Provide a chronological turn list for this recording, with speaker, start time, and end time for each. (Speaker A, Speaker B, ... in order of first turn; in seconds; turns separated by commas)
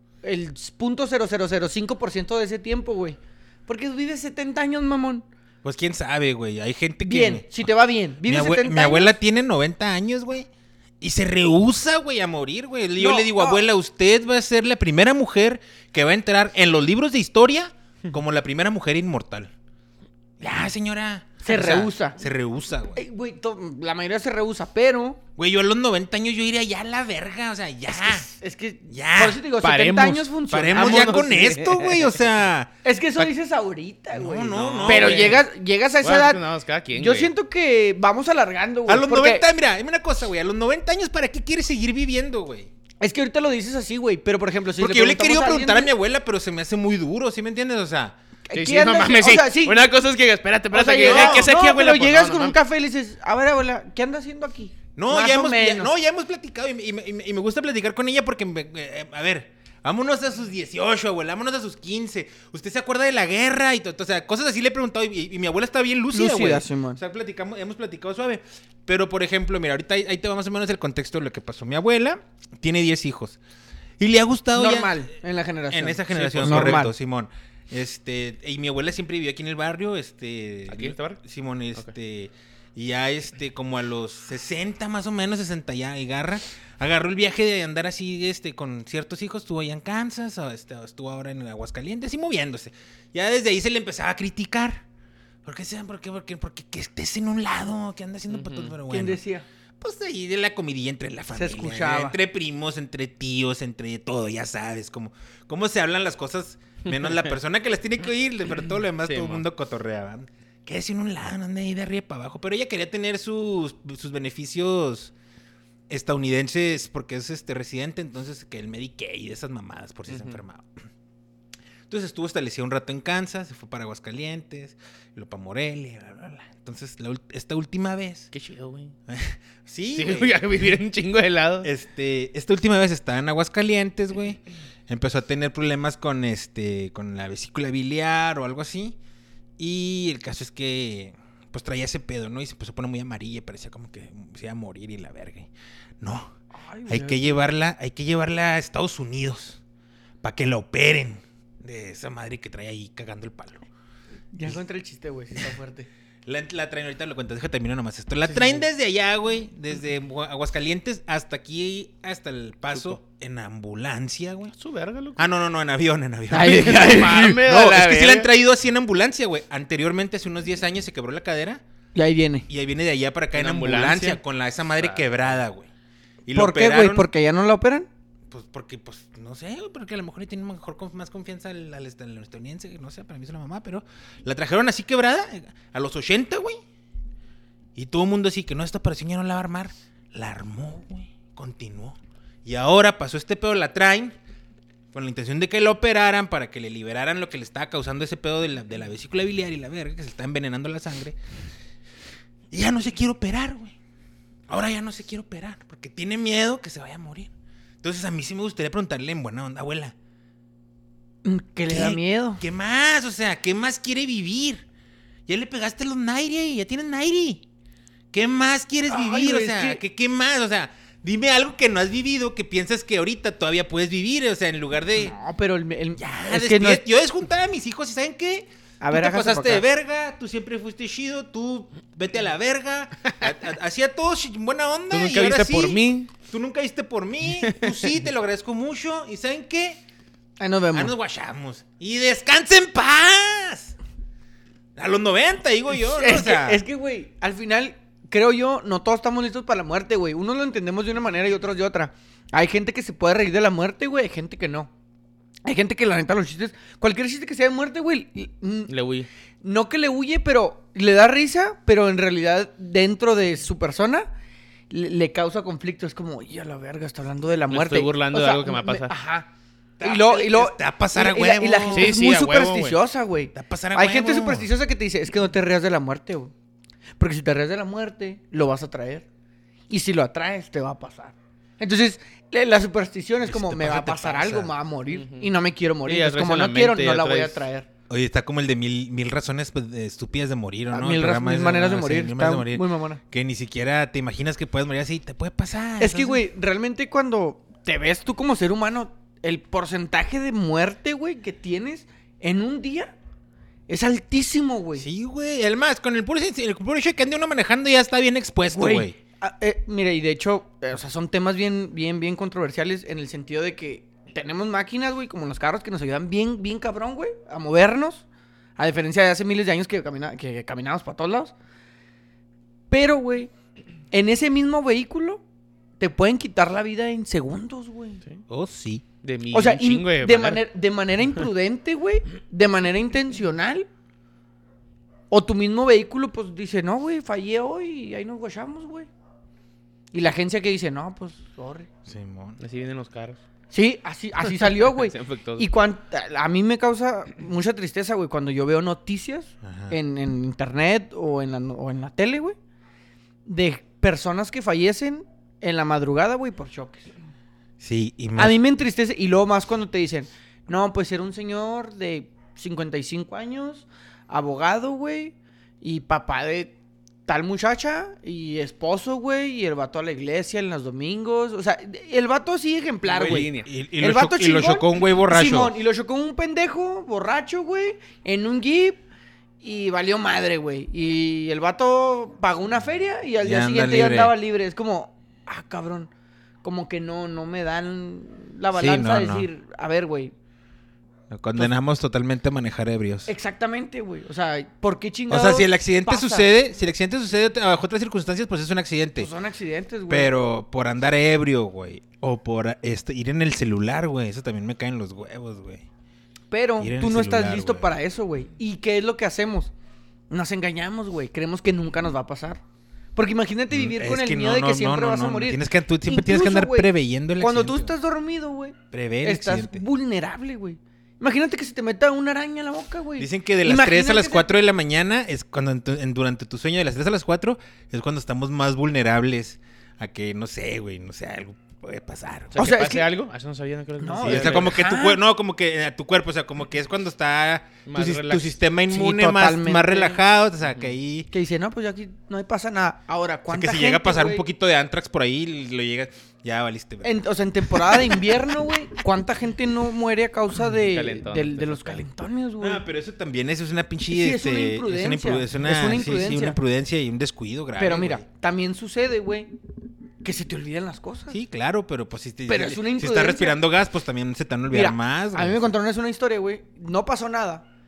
Speaker A: 0.2-5.2, Speaker B: 5.6-7.7, Speaker A: 7.0-9.2, Speaker B: 8.2-10.5, Speaker B: 11.0-19.5, Speaker A: 12.9-13.6, Speaker B: 20.4-23.0, Speaker A: 20.4-20.7, Speaker A: 21.4-22.2, Speaker A: 22.9-25.2, Speaker B: 25.4-28.3, Speaker A: 27.9-31.3, Speaker B: 28.9-29.4, Speaker C: 29.6-32.2, Speaker B: 30.5-33.3, Speaker A: 32.8-36.4, Speaker B: 34.1-35.4, Speaker C: 34.5-35.4, Speaker C: 36.0-37.3, Speaker A: 36.9-39.5, Speaker B: 38.9-42.7, Speaker A: 43.0-45.9, Speaker B: 44.8-48.1, Speaker A: 48.5-49.9, Speaker C: 48.5-52.6, Speaker A: 50.7-55.9, Speaker B: 51.0-51.5, Speaker B: 55.0-73.4, Speaker A: 66.1-67.0, Speaker B: 74.0-75.0, Speaker A: 74.5-76.9, Speaker B: 75.7-94.8, Speaker C: 76.2-76.8, Speaker C: 80.7-81.2, Speaker B: 95.4-99.2, Speaker C: 98.3-98.8, Speaker A: 98.9-99.4, Speaker B: 99.8-115.1, Speaker A: 101.3-102.2, Speaker C: 106.8-107.3, Speaker C: 109.0-109.4, Speaker B: 115.9-120.7, Speaker C: 120.1-120.4, Speaker B: 121.9-128.3, Speaker C: 128.3-128.9, Speaker B: 129.1-130.8, Speaker C: 129.9-131.7, Speaker B: 131.6-139.0, Speaker B: 139.6-146.3, Speaker A: 146.6-147.4, Speaker B: 146.9-149.6, Speaker B: 150.2-153.7, Speaker A: 154.3-155.9, Speaker B: 156.2-164.5, Speaker C: 164.6-165.2, Speaker B: 165.2-171.6, Speaker A: 166.3-167.4, Speaker C: 166.4-168.3, Speaker A: 171.9-172.5, Speaker B: 172.5-175.7, Speaker C: 173.3-174.2, Speaker C: 174.8-175.2, Speaker B: 176.2-177.1, Speaker A: 176.3-177.9, Speaker B: 178.3-186.6, Speaker B: 187.7-194.1, Speaker B: 194.9-201.2, Speaker B: 202.5-203.7, Speaker B: 204.5-207.3, Speaker B: 207.8-209.9, Speaker A: 211.2-212.4, Speaker B: 211.7-214.6, Speaker B: 215.3-217.4, Speaker B: 218.1-225.1, Speaker A: 218.9-219.8, Speaker A: 224.9-226.8, Speaker B: 226.0-239.8, Speaker A: 228.8-229.6, Speaker C: 234.9-236.1, Speaker C: 237.4-237.8, Speaker A: 240.4-240.9, Speaker B: 240.7-243.7, Speaker B: 244.8-246.6, Speaker A: 245.8-254.7, Speaker A: 255.4-258.7, Speaker C: 258.7-259.1, Speaker A: 259.4-264.1, Speaker A: 264.7-269.3, Speaker C: 267.5-268.9, Speaker B: 269.8-271.9, Speaker A: 269.8-276.3, Speaker C: 271.7-272.8, Speaker B: 273.3-274.5, Speaker A: 277.0-279.1, Speaker A: 279.7-287.7, Speaker B: 283.2-284.5, Speaker C: 284.9-285.3, Speaker C: 285.8-287.4, Speaker B: 287.9-296.2, Speaker A: 290.7-293.0, Speaker A: 295.8-302.9, Speaker A: 303.7-304.9, Speaker B: 304.8-308.9, Speaker A: 308.5-318.1, Speaker A: 318.6-321.3, Speaker A: 322.7-323.3, Speaker A: 323.9-325.2, Speaker A: 325.8-328.0, Speaker B: 328.3-328.8, Speaker C: 329.0-330.4, Speaker A: 329.3-333.7, Speaker A: 335.1-338.9, Speaker A: 339.9-341.7, Speaker B: 341.9-342.4, Speaker C: 342.4-343.2, Speaker A: 343.5-352.4, Speaker C: 344.6-345.5, Speaker B: 349.4-349.8, Speaker A: 353.2-356.9, Speaker B: 357.6-358.4, Speaker A: 358.2-366.5, Speaker A: 367.1-378.8, Speaker C: 372.9-373.5, Speaker B: 373.1-375.5, Speaker A: 379.4-385.9, Speaker B: 383.2-384.1, Speaker A: 386.4-390.1, Speaker B: 388.5-389.3, Speaker B: 391.1-393.1, Speaker A: 393.1-396.3, Speaker B: 395.1-399.1, Speaker A: 399.0-400.1, Speaker B: 399.9-405.6, Speaker A: 406.3-409.5, Speaker B: 406.6-407.7, Speaker A: 410.1-412.4, Speaker A: 412.9-424.3, Speaker B: 413.5-417.7, Speaker B: 418.7-419.6, Speaker B: 423.0-432.4, Speaker C: 432.3-434.6, Speaker A: 432.4-432.9, Speaker A: 433.8-435.0, Speaker B: 434.0-441.1, Speaker C: 437.6-438.4, Speaker A: 438.7-440.0, Speaker A: 441.1-444.2, Speaker B: 443.3-448.0, Speaker A: 446.8-452.6, Speaker C: 450.5-451.8, Speaker B: 452.4-458.0, Speaker A: 453.9-456.4, Speaker A: 457.6-459.3, Speaker A: 460.0-461.2, Speaker B: 461.1-465.5, Speaker A: 462.3-463.4, Speaker A: 464.5-467.4